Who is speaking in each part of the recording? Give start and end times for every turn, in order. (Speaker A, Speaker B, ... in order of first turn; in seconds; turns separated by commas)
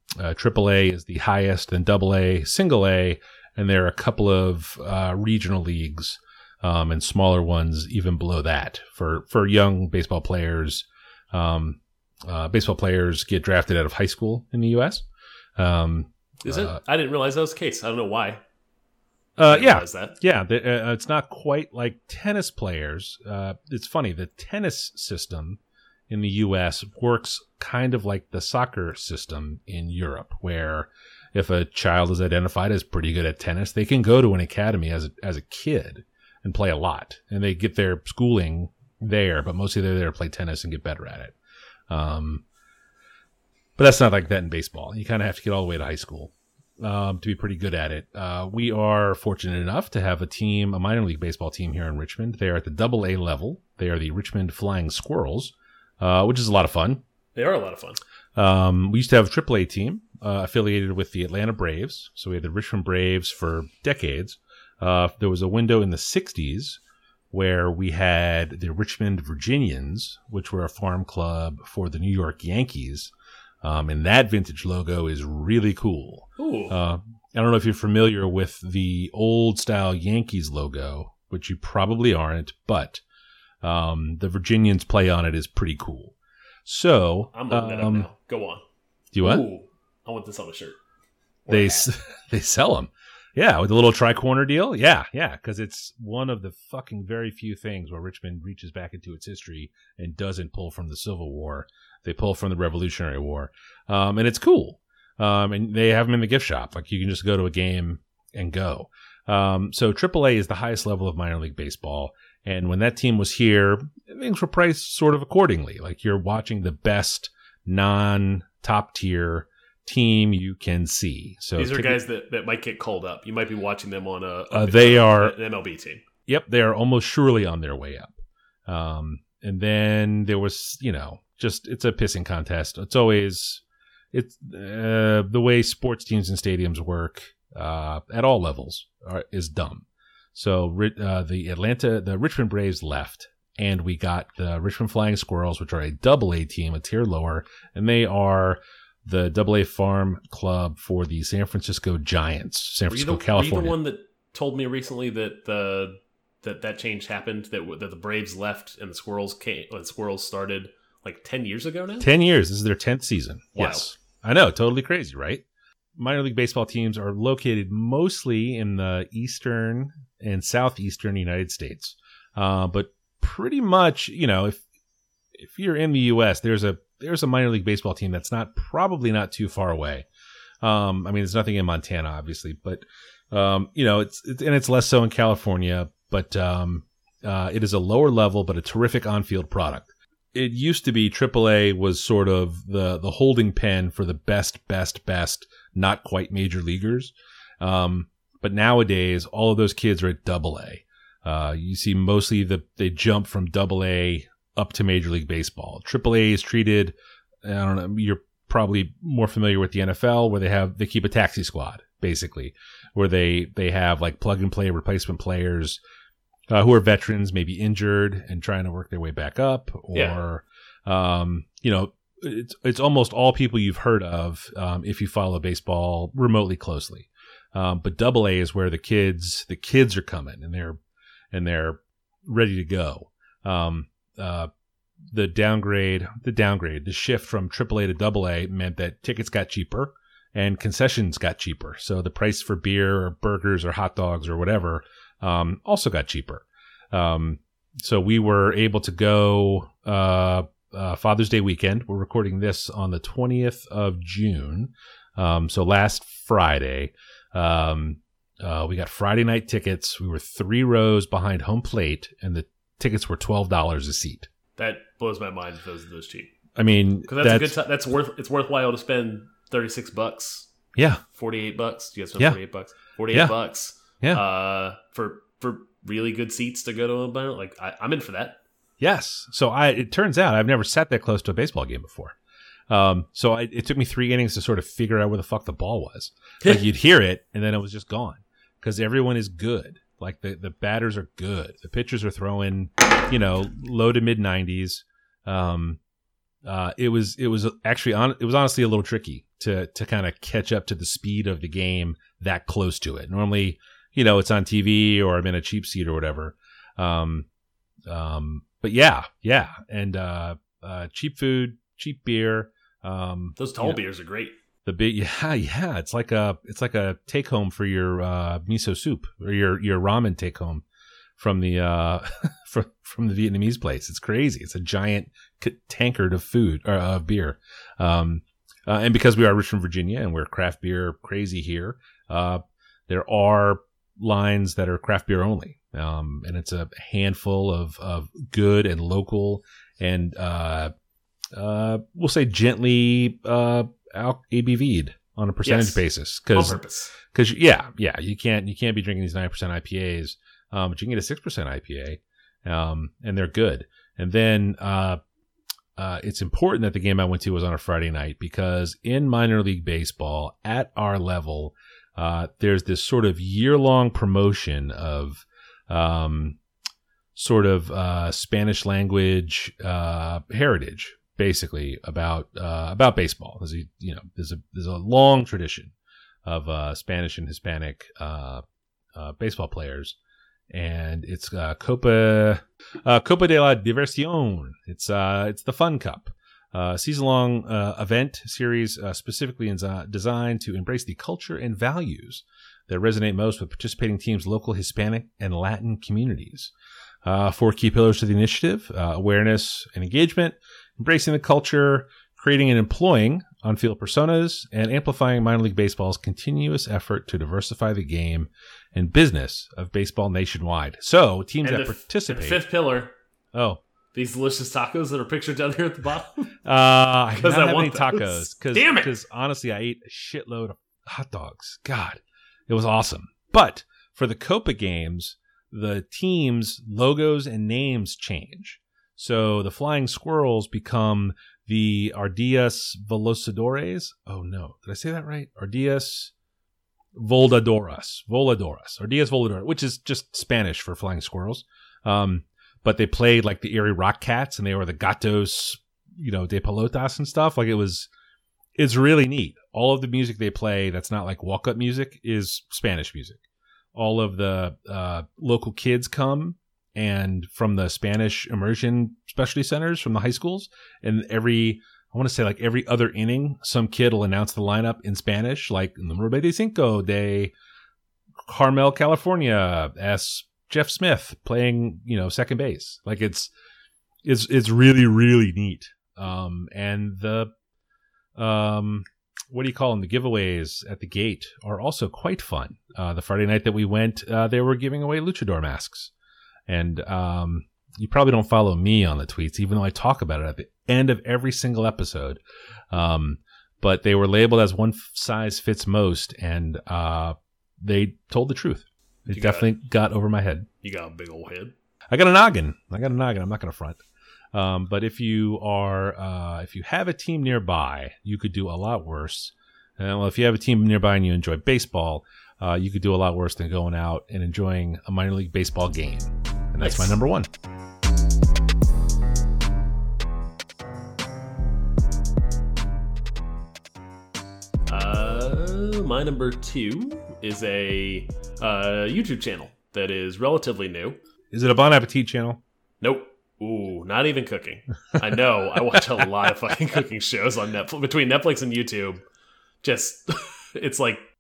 Speaker A: 0.2-15.1, Speaker A: 15.6-16.8, Speaker B: 16.4-18.4, Speaker A: 19.4-41.4, Speaker B: 19.4-20.2, Speaker A: 41.9-42.4, Speaker A: 43.8-57.0, Speaker B: 57.4-58.0, Speaker A: 58.4-66.8, Speaker A: 67.3-73.1, Speaker A: 73.6-83.0, Speaker B: 76.4-76.8, Speaker A: 83.6-86.2, Speaker A: 86.7-88.1, Speaker B: 87.3-88.6, Speaker A: 89.1-89.5, Speaker B: 89.2-90.8, Speaker B: 91.5-91.9, Speaker A: 91.5-122.0, Speaker B: 121.6-126.0, Speaker A: 124.5-125.3, Speaker A: 126.3-153.8, Speaker B: 152.9-162.1, Speaker A: 162.0-165.4, Speaker B: 163.6-163.9, Speaker A: 166.0-174.6, Speaker A: 175.3-180.1, Speaker A: 180.6-215.8, Speaker A: 216.5-230.8, Speaker B: 219.9-220.2, Speaker A: 231.3-234.5, Speaker A: 235.1-264.3, Speaker B: 264.6-266.3, Speaker A: 266.6-267.6, Speaker B: 267.1-270.5, Speaker A: 270.8-271.0, Speaker B: 271.1-278.4, Speaker A: 273.1-273.4, Speaker A: 278.8-282.2, Speaker A: 282.7-295.8, Speaker A: 296.4-307.3, Speaker A: 307.9-313.8, Speaker B: 313.4-314.4, Speaker A: 314.6-320.6, Speaker A: 321.2-340.7, Speaker A: 341.3-355.0, Speaker B: 345.4-346.9, Speaker A: 355.8-366.4, Speaker A: 367.2-375.7, Speaker A: 376.2-378.4, Speaker A: 378.9-380.0, Speaker A: 380.5-396.5, Speaker A: 397.0-412.4, Speaker B: 411.4-412.9, Speaker A: 413.3-413.6, Speaker B: 413.9-416.3, Speaker A: 416.4-436.1, Speaker B: 417.2-418.9, Speaker A: 436.9-447.9, Speaker A: 448.6-453.2, Speaker A: 453.8-467.3, Speaker A: 468.2-473.3, Speaker A: 474.0-477.3, Speaker A: 478.2-485.9, Speaker A: 486.5-492.2, Speaker A: 492.7-500.5, Speaker B: 499.1-499.5, Speaker B: 500.6-501.5, Speaker A: 501.9-503.8, Speaker A: 504.3-517.3, Speaker B: 516.6-517.0, Speaker B: 524.7-531.0, Speaker A: 531.3-532.4, Speaker B: 532.8-539.0, Speaker B: 539.6-541.1